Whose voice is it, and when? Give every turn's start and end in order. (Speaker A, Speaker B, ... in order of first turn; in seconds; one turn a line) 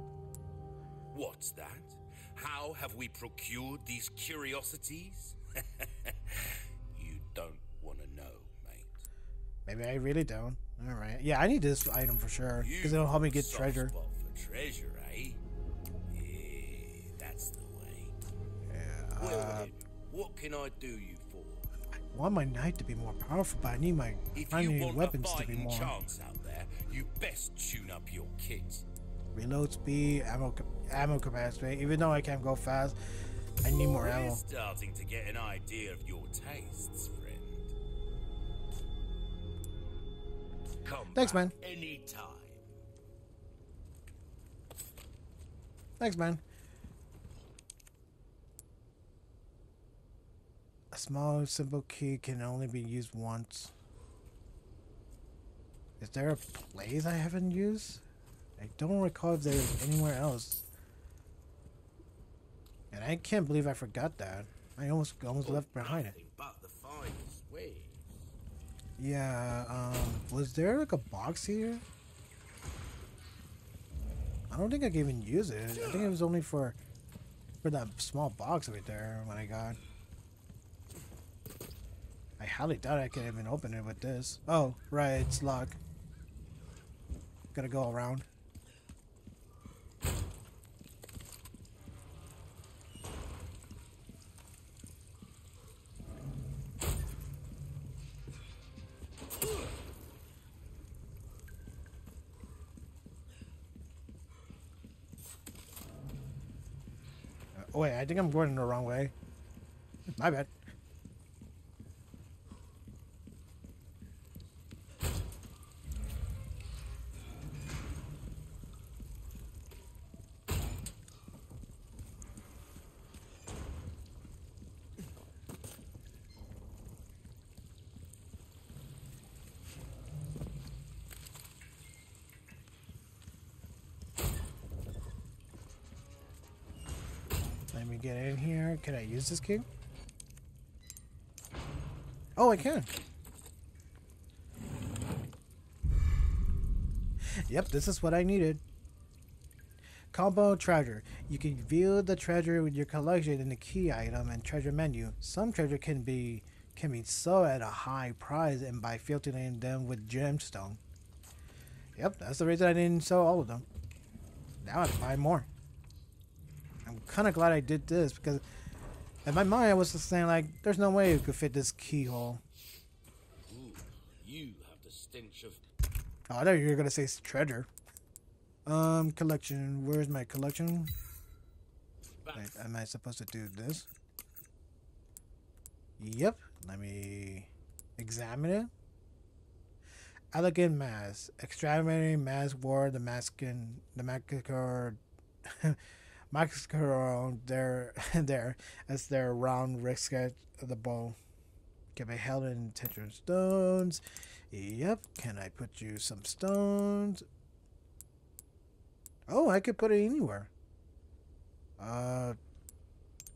Speaker A: 1.1-9.1
Speaker B: 9.7-13.9
Speaker A: 12.6-15.4
Speaker A: 16.1-18.1
Speaker B: 18.7-19.7
Speaker A: 19.2-21.7
Speaker B: 22.1-25.9
Speaker A: 24.3-28.9
Speaker B: 29.3-33.0
Speaker B: 33.6-34.4
Speaker A: 33.8-37.7
Speaker A: 40.8-42.7
Speaker B: 41.1-41.5
Speaker B: 46.0-46.4
Speaker B: 50.9-53.7
Speaker B: 56.0-58.0
Speaker B: 58.6-60.7
Speaker B: 62.9-66.1
Speaker A: 65.4-68.1
Speaker B: 69.0-71.8
Speaker B: 74.5-76.8
Speaker B: 77.6-79.8
Speaker B: 82.4-85.8
Speaker B: 87.5-88.2
Speaker B: 107.5-109.1
Speaker B: 110.2-110.5
Speaker B: 137.7-139.7
Speaker B: 142.4-142.9
Speaker B: 147.3-148.6
Speaker B: 150.1-160.8
Speaker B: 162.0-163.7
Speaker B: 164.6-165.5
Speaker B: 166.8-168.4
Speaker B: 169.2-172.4
Speaker A: 173.4-175.6
Speaker B: 176.3-177.7
Speaker B: 178.7-180.9
Speaker A: 182.2-182.6
Speaker B: 182.3-183.9
Speaker B: 186.0-188.7
Speaker B: 190.3-195.8
Speaker B: 196.3-201.2
Speaker B: 201.9-207.2
Speaker B: 209.3-210.5
Speaker B: 211.8-212.3